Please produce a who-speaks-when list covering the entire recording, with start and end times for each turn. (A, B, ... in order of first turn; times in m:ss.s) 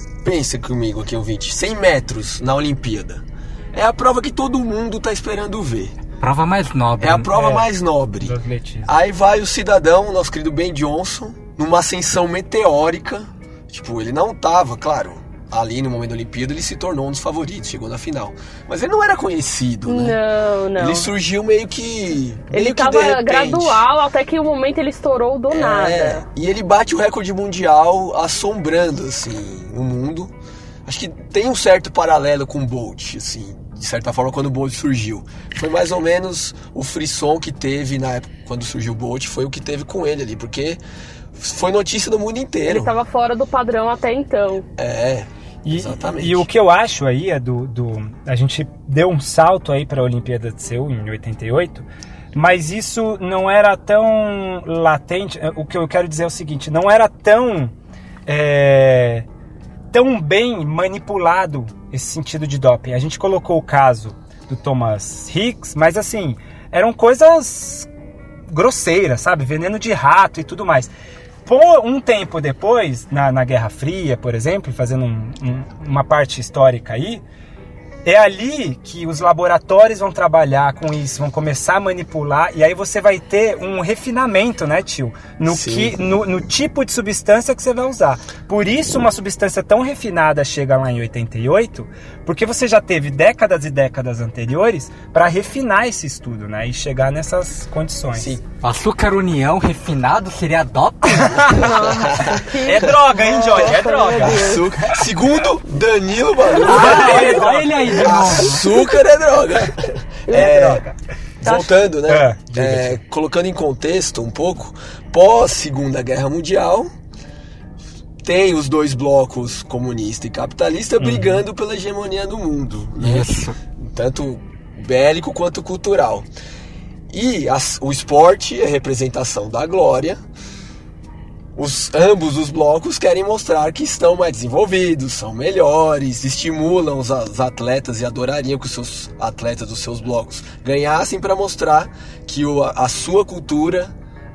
0:00.2-0:06.0 A
0:06.2-0:07.3 B
0:07.0-0:08.4 A
0:07.3-0:08.9 C
0:08.9-0:20.2 A
0:19.8-0:21.1 D
0:20.8-0:23.8 A
0:22.5-0:26.2 D
0:25.5-0:30.3 A
0:30.9-0:40.8 A
0:41.4-0:42.9 A
0:42.7-0:44.7 D
0:44.8-0:46.5 A
0:45.6-0:57.7 C
0:58.3-0:59.3 C
0:59.9-1:07.9 C
1:08.5-1:10.9 C
1:11.5-1:17.2 C
1:18.0-1:38.3 C
1:25.5-1:26.0 A
1:38.2-1:38.4 A
1:38.6-1:41.7 B
1:41.1-1:41.8 C
1:41.5-1:44.7 D
1:41.9-1:42.5 A
1:42.6-1:44.6 C
1:44.2-1:50.8 A
1:46.6-1:48.7 B
1:46.6-1:48.6 C
1:50.3-1:50.8 D
1:50.3-1:50.9 C
1:51.4-1:56.9 A
1:51.4-1:51.8 D
1:52.1-1:53.0 C
1:58.2-2:06.3 A
2:01.0-2:01.4 C
2:03.0-2:03.6 B
2:07.1-2:10.2 A
2:11.6-2:23.9 A